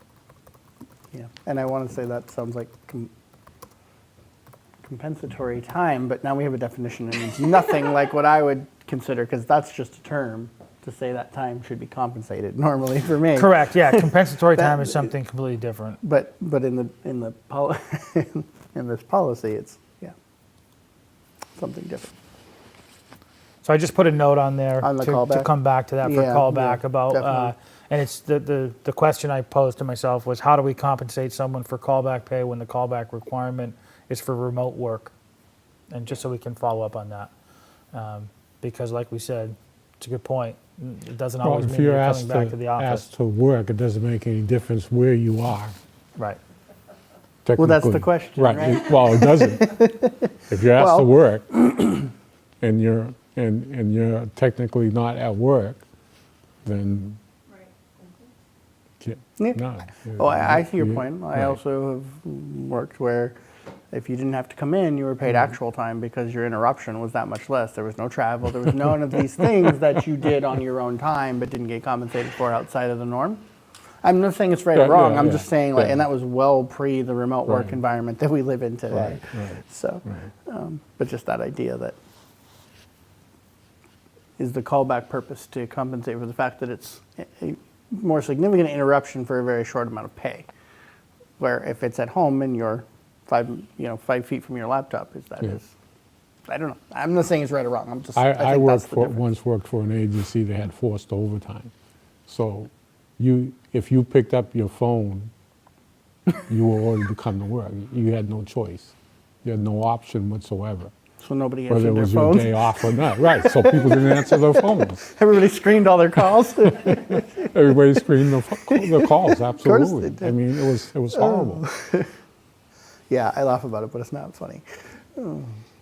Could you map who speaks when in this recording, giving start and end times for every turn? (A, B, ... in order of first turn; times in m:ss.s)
0:01.1-0:03.1 A
0:04.8-0:15.1 A
0:13.3-0:16.0 B
0:16.0-0:20.1 A
0:21.6-0:22.1 A
0:23.6-0:35.1 B
0:24.8-0:25.5 A
0:26.0-0:27.5 A
0:35.9-0:37.3 B
0:37.9-0:43.1 B
0:41.4-0:45.8 C
0:47.4-0:52.1 C
0:47.6-0:50.2 A
0:50.7-0:51.1 A
0:52.6-0:55.8 C
0:56.6-0:57.2 C
0:59.0-1:01.6 C
1:00.1-1:03.4 A
1:03.9-1:13.4 A
1:14.0-1:21.9 A
1:14.8-1:16.0 C
1:17.5-1:17.8 C
1:18.9-1:20.3 C
1:24.4-1:30.5 A
1:31.4-1:35.7 A
1:36.5-1:39.2 A
1:38.2-1:41.7 C
1:42.3-1:45.3 C
1:46.5-1:50.9 C
1:51.2-1:57.5 A
1:51.7-1:55.1 C
1:56.9-2:01.7 C
1:58.7-2:00.4 A
2:01.1-2:02.1 A
2:03.1-2:04.6 A
2:05.2-2:05.5 A